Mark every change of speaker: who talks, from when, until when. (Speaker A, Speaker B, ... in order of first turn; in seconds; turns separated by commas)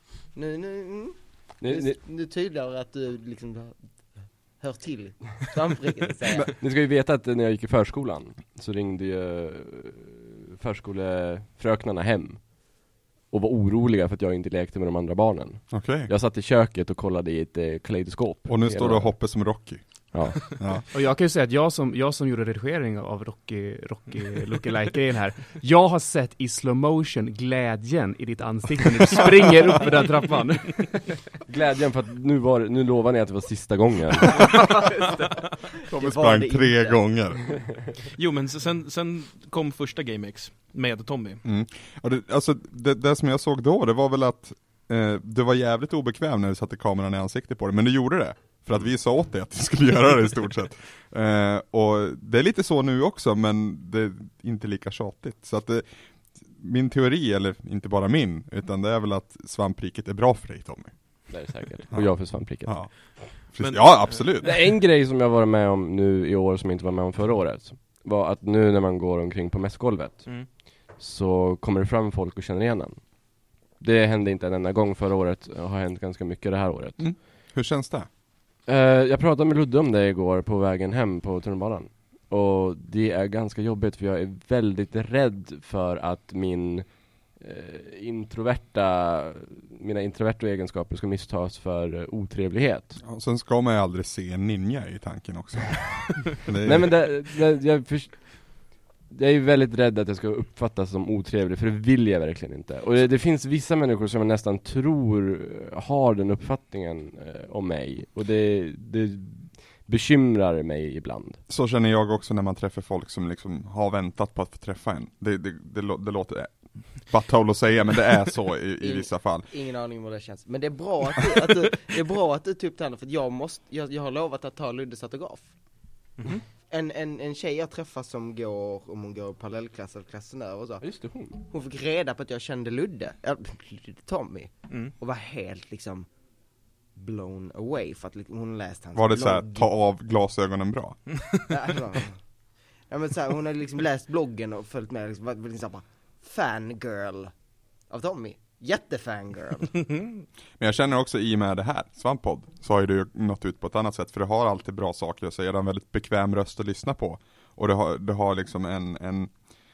Speaker A: 0.3-3.8, Speaker B: 1.6-2.0, Speaker A: 4.6-6.5, Speaker B: 6.5-12.5, Speaker B: 13.3-19.2, Speaker C: 15.7-16.1, Speaker C: 18.5-20.8, Speaker B: 20.1-20.6, Speaker D: 20.9-31.2, Speaker B: 31.5-34.6, Speaker C: 34.4-34.9, Speaker A: 34.5-35.1, Speaker A: 35.8-37.0, Speaker C: 35.8-37.6, Speaker E: 38.1-41.4, Speaker C: 41.4-55.9, Speaker C: 56.4-60.9, Speaker B: 61.3-62.9, Speaker C: 61.9-64.6, Speaker E: 63.6-64.3, Speaker B: 64.4-73.0, Speaker B: 73.8-77.1, Speaker C: 77.0-78.1, Speaker B: 78.7-93.0, Speaker C: 93.0-97.0, Speaker B: 96.6-98.5, Speaker B: 99.1-111.4, Speaker C: 111.5-119.5, Speaker A: 118.8-125.5, Speaker A: 126.7-130.8, Speaker B: 130.8-131.4, Speaker A: 131.5-136.1, Speaker A: 137.0-139.7, Speaker C: 138.9-141.0, Speaker A: 141.5-142.2, Speaker A: 142.9-147.3, Speaker A: 147.9-149.9, Speaker C: 150.6-159.3